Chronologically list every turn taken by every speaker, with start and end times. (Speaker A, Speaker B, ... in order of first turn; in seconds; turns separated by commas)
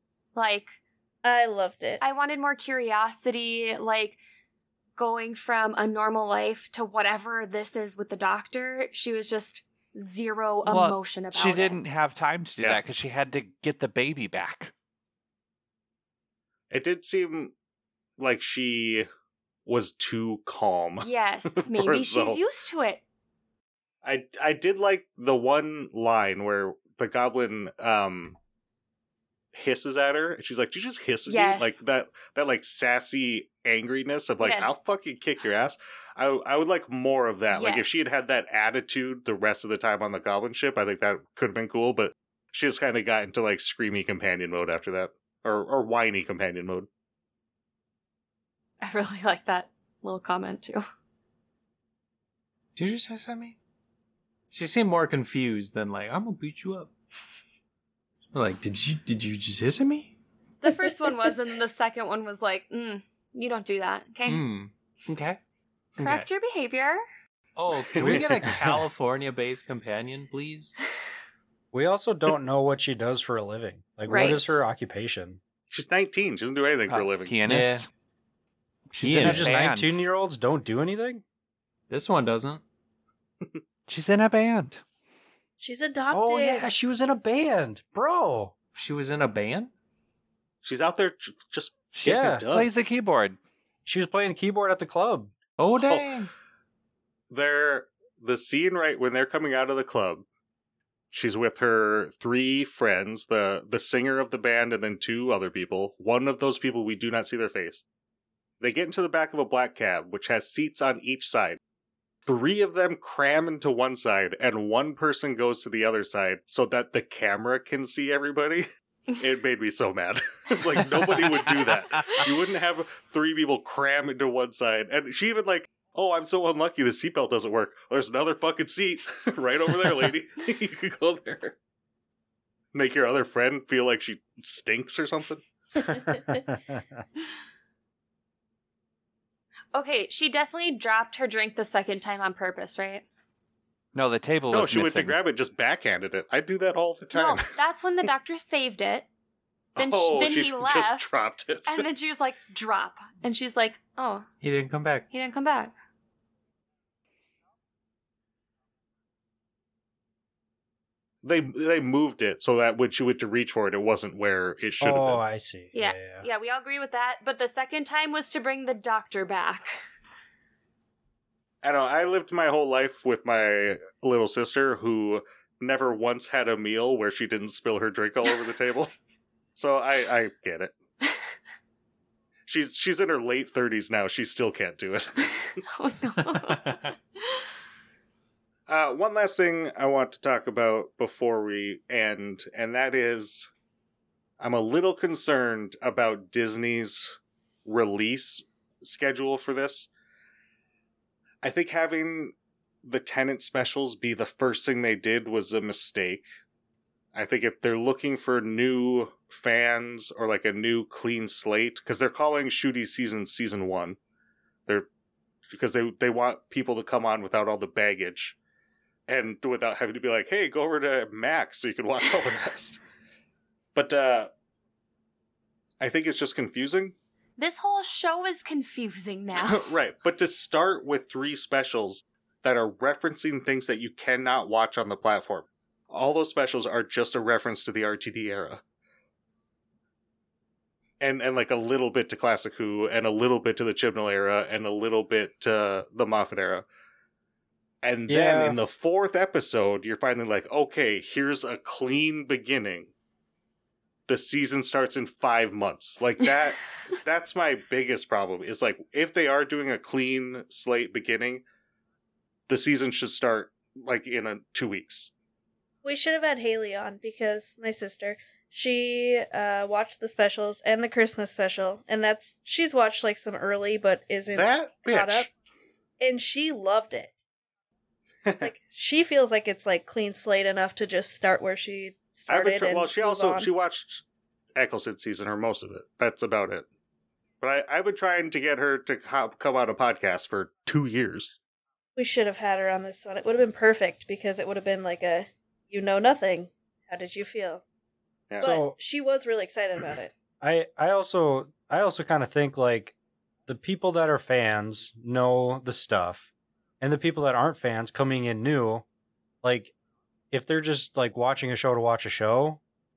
Speaker A: 0.3-0.8, Speaker B: 1.2-2.0, Speaker A: 2.0-4.2, Speaker A: 5.0-11.8, Speaker C: 10.7-14.7, Speaker D: 16.7-17.5, Speaker D: 18.2-19.1, Speaker D: 19.7-22.4, Speaker A: 21.0-23.0, Speaker D: 24.0-28.4, Speaker D: 29.5-46.9, Speaker A: 31.3-31.8, Speaker A: 34.4-34.8, Speaker A: 37.5-38.1, Speaker A: 48.8-50.9, Speaker E: 52.8-53.6, Speaker E: 54.5-56.9, Speaker E: 58.3-60.2, Speaker A: 60.6-64.4, Speaker E: 64.3-65.4, Speaker E: 66.0-66.3, Speaker A: 66.0-67.0, Speaker E: 67.6-70.7, Speaker D: 67.9-68.5, Speaker F: 71.7-75.4, Speaker A: 74.1-74.6, Speaker D: 75.7-77.4, Speaker C: 76.9-77.9, Speaker E: 77.5-77.8, Speaker C: 78.9-80.0, Speaker E: 79.0-79.7, Speaker F: 79.2-81.2, Speaker E: 81.9-82.6, Speaker C: 83.9-84.8, Speaker B: 85.6-86.7, Speaker F: 86.1-88.5, Speaker E: 88.8-89.7, Speaker D: 90.6-92.7, Speaker C: 92.0-93.4, Speaker F: 92.0-92.5, Speaker F: 93.9-95.3, Speaker E: 95.6-96.3, Speaker D: 95.8-96.2, Speaker D: 97.3-100.2, Speaker D: 101.1-107.8, Speaker D: 108.6-111.6, Speaker D: 112.3-131.6, Speaker D: 132.7-136.0, Speaker F: 136.5-136.8, Speaker A: 139.7-143.1, Speaker C: 143.9-145.2, Speaker D: 144.5-147.4, Speaker A: 147.1-149.1, Speaker D: 149.8-151.9, Speaker A: 149.8-154.3, Speaker E: 154.4-155.1, Speaker A: 155.1-155.7, Speaker D: 161.2-165.2, Speaker F: 164.8-166.2, Speaker A: 165.7-169.7, Speaker D: 171.6-178.9, Speaker D: 179.6-180.8, Speaker D: 182.5-185.6, Speaker A: 185.7-186.8, Speaker E: 186.5-186.9, Speaker D: 188.7-193.5, Speaker D: 194.4-199.9, Speaker D: 201.4-206.3, Speaker D: 207.1-214.0, Speaker D: 215.5-218.4, Speaker D: 219.1-222.8, Speaker D: 223.8-224.3, Speaker D: 225.8-226.9, Speaker A: 227.4-229.7, Speaker D: 229.4-238.6, Speaker D: 241.0-246.7, Speaker D: 247.8-252.9, Speaker F: 248.1-248.6, Speaker D: 254.1-261.4, Speaker D: 262.5-265.1, Speaker B: 265.8-275.3, Speaker D: 274.3-275.3, Speaker B: 276.0-277.1, Speaker D: 278.3-278.5, Speaker B: 278.4-283.5, Speaker D: 282.3-284.0, Speaker D: 284.6-286.7, Speaker D: 287.4-291.4, Speaker B: 292.0-297.6, Speaker F: 298.4-298.7, Speaker B: 298.4-300.1, Speaker F: 300.4-302.9, Speaker F: 303.5-306.3, Speaker F: 306.8-308.9, Speaker F: 309.4-309.7, Speaker F: 310.3-312.6